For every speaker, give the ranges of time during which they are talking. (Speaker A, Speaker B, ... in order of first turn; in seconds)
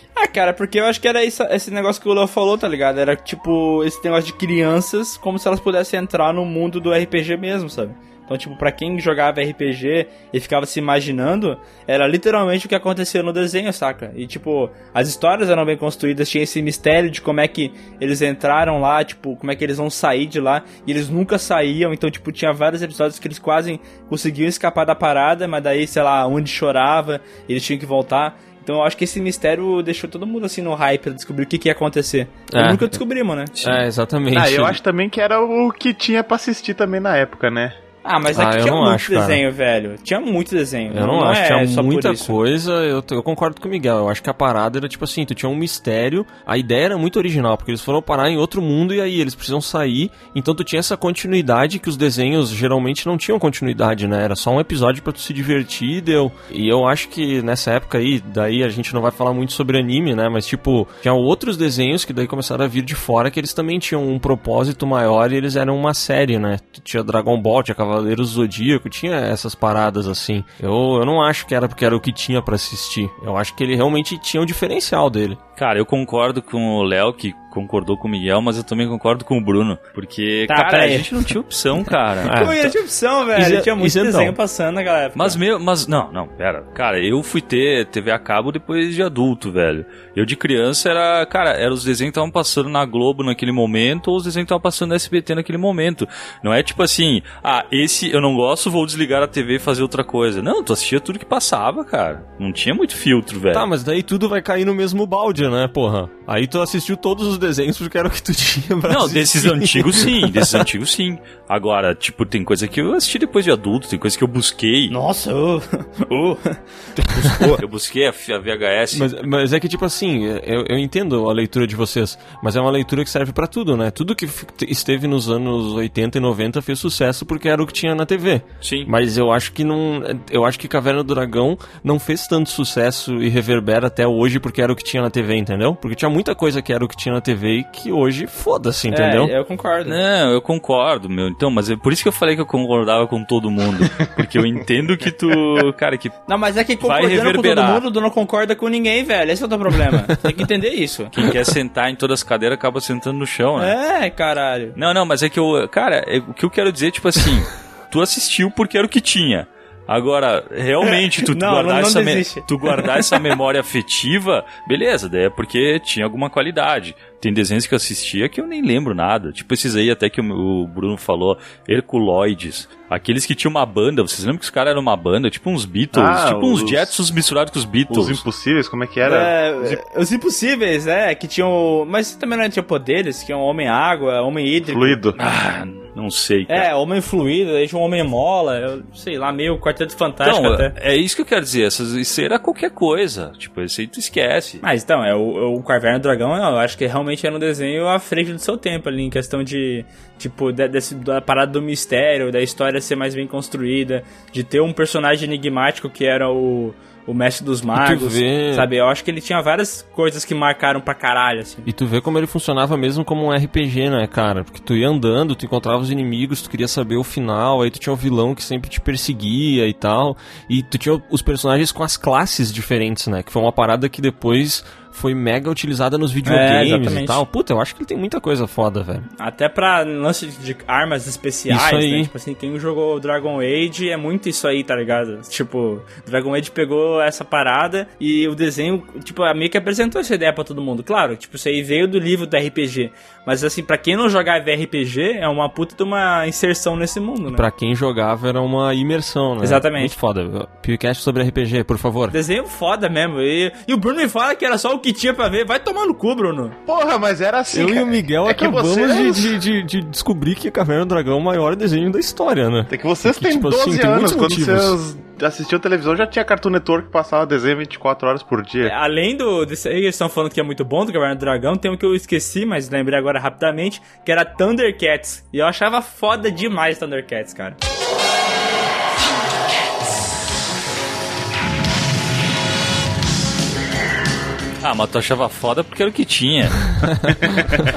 Speaker A: 0.2-33.6, 38.0-42.4, 80.5-81.1, 82.3-85.4, 114.9-116.6, 117.1-117.5, 138.9-140.0, 146.3-151.1, 153.6-154.8, 160.8-163.2, 179.0-185.0, 186.5-190.7, 194.6-211.7, 226.2-227.2, 229.2-247.4, 249.4-249.9, 252.1-256.6, 268.6-277.6
Speaker B: 32.5-33.0, 33.6-34.8, 38.3-39.4, 40.9-75.4, 82.2-82.8, 83.3-84.4, 103.5-110.7, 117.0-117.6, 118.9-139.3, 207.7-208.7, 211.7-229.1, 231.5-232.1, 247.3-252.2, 257.5-264.8
Speaker C: 34.3-37.8, 175.9-176.9, 177.9-179.8, 184.6-185.2, 256.7-259.4, 262.7-268.7
Speaker D: 75.6-82.5, 85.2-103.7, 108.9-115.0, 117.6-119.1, 128.6-128.9, 139.9-146.2, 146.8-147.8, 151.1-153.8, 154.8-178.2, 185.2-186.7, 190.2-194.6, 284.6-286.9